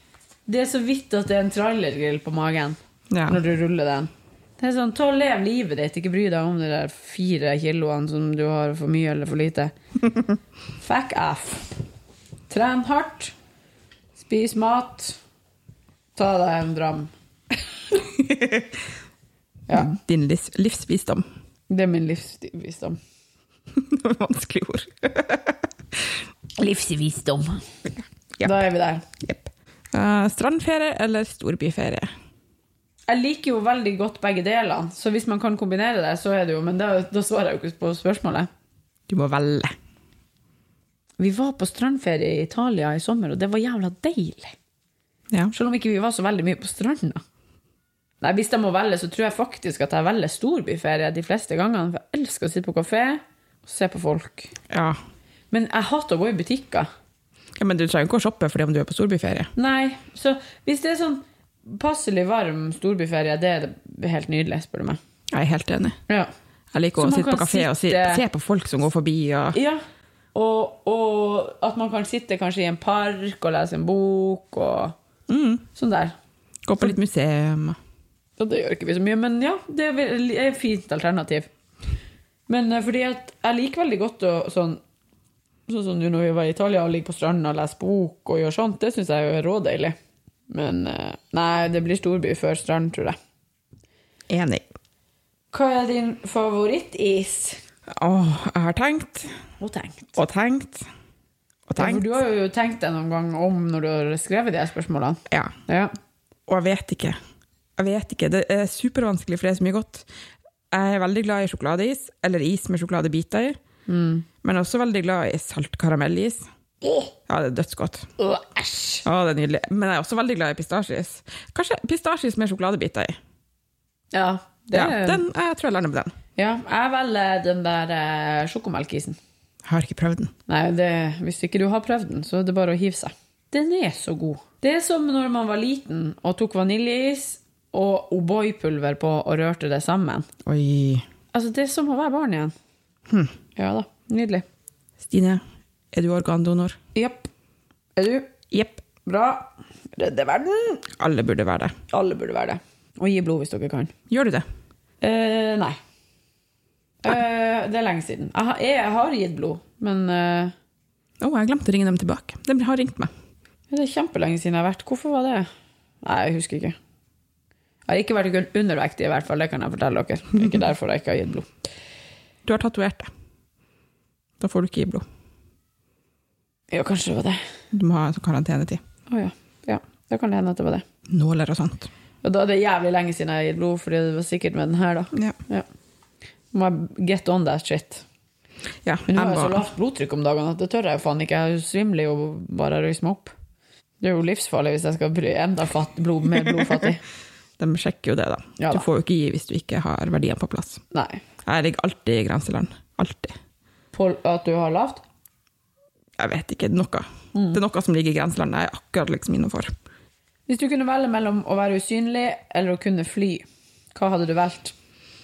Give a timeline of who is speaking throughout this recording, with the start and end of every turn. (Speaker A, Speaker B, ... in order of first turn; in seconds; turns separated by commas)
Speaker A: 0.5-9.7, Speaker B: 3.1-3.4, Speaker A: 10.8-11.7, Speaker A: 12.5-13.3, Speaker A: 14.2-15.2, Speaker A: 16.1-17.1, Speaker B: 18.0-18.8, Speaker A: 19.7-19.9, Speaker B: 19.7-21.2, Speaker A: 21.7-23.0, Speaker B: 23.7-26.1, Speaker A: 26.6-27.6, Speaker B: 28.0-28.6, Speaker A: 28.4-29.1, Speaker B: 29.2-32.1, Speaker A: 33.1-38.5, Speaker B: 39.1-39.7, Speaker A: 41.2-44.5, Speaker A: 45.5-47.2, Speaker A: 48.2-54.5, Speaker B: 54.7-55.0, Speaker A: 55.5-56.9, Speaker B: 57.5-59.5, Speaker A: 59.5-65.0, Speaker B: 65.3-66.0, Speaker B: 66.7-69.6, Speaker A: 67.0-68.2, Speaker A: 69.5-69.8, Speaker A: 70.3-75.0, Speaker B: 75.3-75.7, Speaker A: 75.7-76.2, Speaker B: 76.7-77.8, Speaker A: 78.4-81.5, Speaker A: 82.5-84.8, Speaker A: 85.7-90.0, Speaker A: 90.5-93.2, Speaker B: 94.3-94.6, Speaker A: 95.5-97.6, Speaker B: 97.9-99.3, Speaker A: 99.6-100.2, Speaker B: 100.2-100.8, Speaker B: 101.7-102.1, Speaker A: 101.8-105.9, Speaker B: 105.3-105.5, Speaker B: 106.5-107.2, Speaker B: 107.8-110.1, Speaker B: 110.7-113.6, Speaker A: 113.9-114.3, Speaker B: 114.4-116.4, Speaker B: 117.3-118.1, Speaker A: 118.2-119.0, Speaker B: 119.0-123.2, Speaker A: 124.1-125.2, Speaker B: 124.7-126.1, Speaker A: 126.3-129.2, Speaker B: 129.6-130.3, Speaker A: 130.5-140.3, Speaker B: 140.4-141.0, Speaker A: 141.3-142.5, Speaker A: 143.6-144.4, Speaker B: 145.0-145.4, Speaker B: 145.9-146.8, Speaker A: 146.9-147.3, Speaker A: 148.0-148.3, Speaker B: 148.5-148.8, Speaker A: 149.0-150.9, Speaker B: 150.9-151.7, Speaker A: 151.9-153.9, Speaker B: 154.1-154.4, Speaker A: 155.0-155.8, Speaker A: 157.0-160.5, Speaker B: 161.2-163.1, Speaker A: 163.7-165.5, Speaker A: 166.0-166.8, Speaker A: 167.9-171.5, Speaker B: 172.4-173.1, Speaker B: 174.4-175.0, Speaker A: 176.7-177.4, Speaker B: 177.7-178.8, Speaker A: 179.1-180.8, Speaker B: 181.1-181.9, Speaker A: 182.2-185.7, Speaker A: 186.5-188.0, Speaker B: 188.8-189.7, Speaker A: 189.1-193.3, Speaker A: 194.0-197.0, Speaker B: 197.6-200.8, Speaker A: 198.6-198.8, Speaker A: 200.9-201.2, Speaker B: 201.4-203.3, Speaker A: 203.9-205.0, Speaker B: 206.2-209.7, Speaker A: 207.3-207.6, Speaker A: 210.5-214.7